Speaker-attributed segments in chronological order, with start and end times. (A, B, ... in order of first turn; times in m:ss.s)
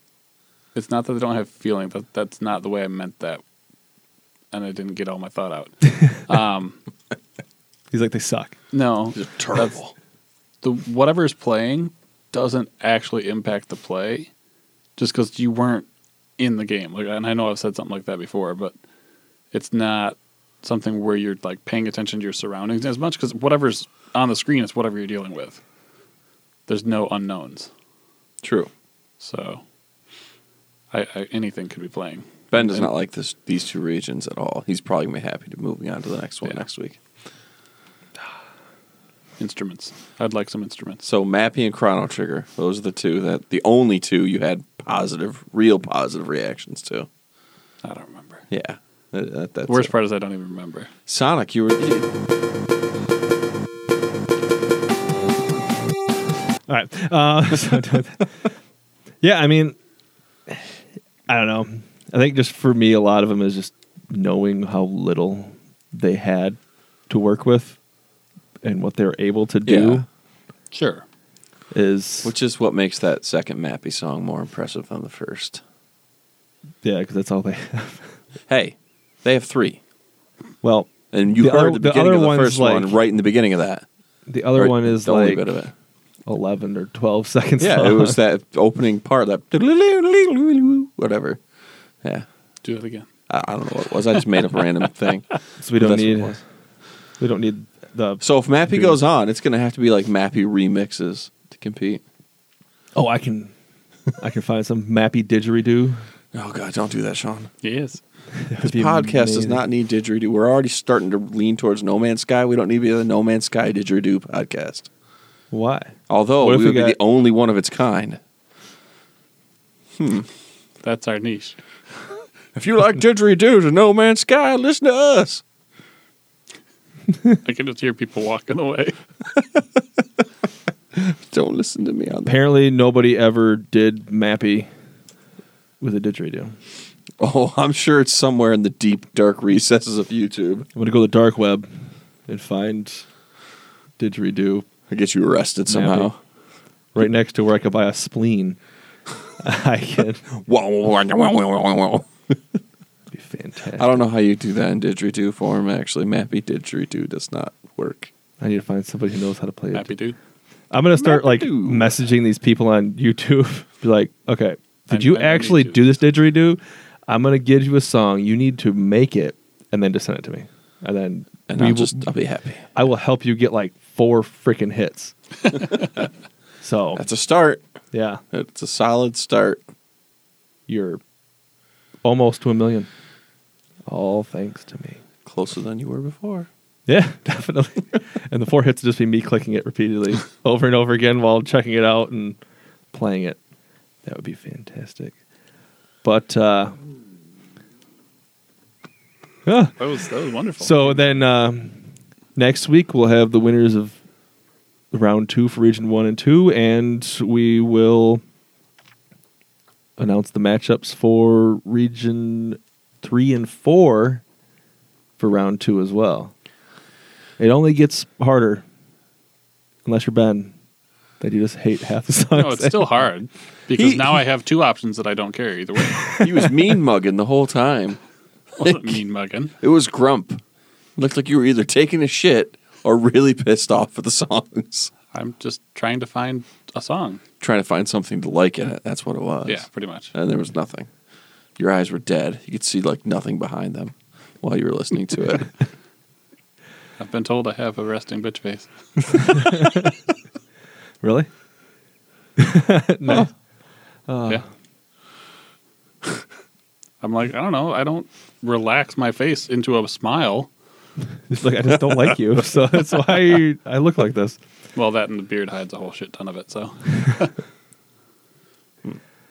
0:00.8-0:03.4 A
0:04.5-0:06.8 A
0:07.9-0:08.6 B
0:08.7-0:09.8 A
0:09.1-0:09.9 C
0:10.6-0:14.3 A
0:15.0-0:15.9 A
0:16.4-0:18.7 A
0:19.5-0:25.6 A
0:26.7-0:27.7 A
0:28.4-0:28.7 C
0:29.2-0:29.6 A
0:30.9-0:32.9 A
0:32.5-0:37.0 C
0:39.4-0:41.0 A
0:41.0-0:47.1 C
0:47.8-0:48.4 A
0:48.5-0:49.9 C
0:49.7-0:50.9 A
0:51.1-0:52.1 C
0:56.7-0:58.5 B
0:59.2-0:59.8 B
1:00.5-1:07.8 B
1:08.6-1:10.1 B
1:09.7-1:10.0 C
1:10.7-1:11.0 A
1:11.7-1:12.3 B
1:12.2-1:15.6 C
1:16.8-1:18.2 B
1:18.5-1:19.8 C
1:20.6-1:22.9 B
1:21.1-1:23.9 C
1:24.3-1:25.6 B
1:24.6-1:25.7 C
1:26.3-1:28.2 B
1:27.6-1:31.4 C
1:32.6-1:33.1 A
1:33.3-1:36.4 C
1:35.6-1:36.4 B
1:37.2-1:39.0 B
1:38.2-1:42.0 C
1:43.0-1:43.5 B
1:44.2-1:46.0 B
1:46.3-1:47.5 C
1:47.6-1:48.0 A
1:48.4-1:49.6 B
1:48.6-1:54.9 C
1:55.5-1:57.0 B
1:56.1-1:58.2 C
2:00.0-2:00.3 C
2:00.8-2:01.6 A
2:02.6-2:05.4 C
2:07.4-2:09.0 A
2:09.4-2:09.6 C
2:10.9-2:12.4 C
2:12.3-2:14.7 B
2:15.8-2:16.6 B
2:17.2-2:20.7 C
2:20.8-2:23.1 B
2:24.0-2:24.7 B
2:24.9-2:26.2 C
2:25.7-2:26.1 B
2:27.0-2:28.6 B
2:29.4-2:30.3 B
2:30.3-2:32.4 C
2:33.1-2:34.0 B
2:33.8-2:38.1 C
2:38.4-2:39.9 B
2:39.7-2:40.2 A
2:40.7-2:52.1 B
2:41.0-2:41.9 C
2:44.9-2:45.8 A
2:51.5-2:52.7 C
2:52.7-2:55.1 B
2:56.6-2:57.0 B
2:57.0-2:57.6 C
2:57.9-2:58.2 B
2:58.3-2:59.6 C
3:00.7-3:01.0 B
3:02.0-3:02.9 B
3:03.9-3:05.0 B
3:05.2-3:06.5 C
3:06.9-3:12.4 B
3:12.9-3:13.4 B
3:14.0-3:15.2 B
3:16.0-3:16.8 B
3:19.5-3:19.8 B
3:19.8-3:21.2 A
3:20.6-3:21.8 B
3:22.4-3:24.0 B
3:24.9-3:28.2 B
3:30.0-3:34.2 B
3:35.2-3:36.3 B
3:37.4-3:38.6 B
3:39.8-3:40.5 B
3:41.2-3:43.0 B
3:42.3-3:46.2 A
3:43.7-3:44.2 C
3:46.2-3:48.0 C
3:48.6-3:49.5 A
3:48.6-3:49.0 C
3:49.6-3:50.4 C
3:51.0-3:54.9 C
3:55.1-3:57.2 A
3:57.4-4:00.9 C
3:59.5-4:00.1 A
4:01.6-4:05.5 C
4:07.0-4:09.6 A
4:09.3-4:09.9 B
4:11.0-4:11.3 B
4:12.4-4:13.3 B
4:14.1-4:14.4 B
4:17.0-4:20.5 A
4:21.3-4:24.4 B
4:24.8-4:27.4 A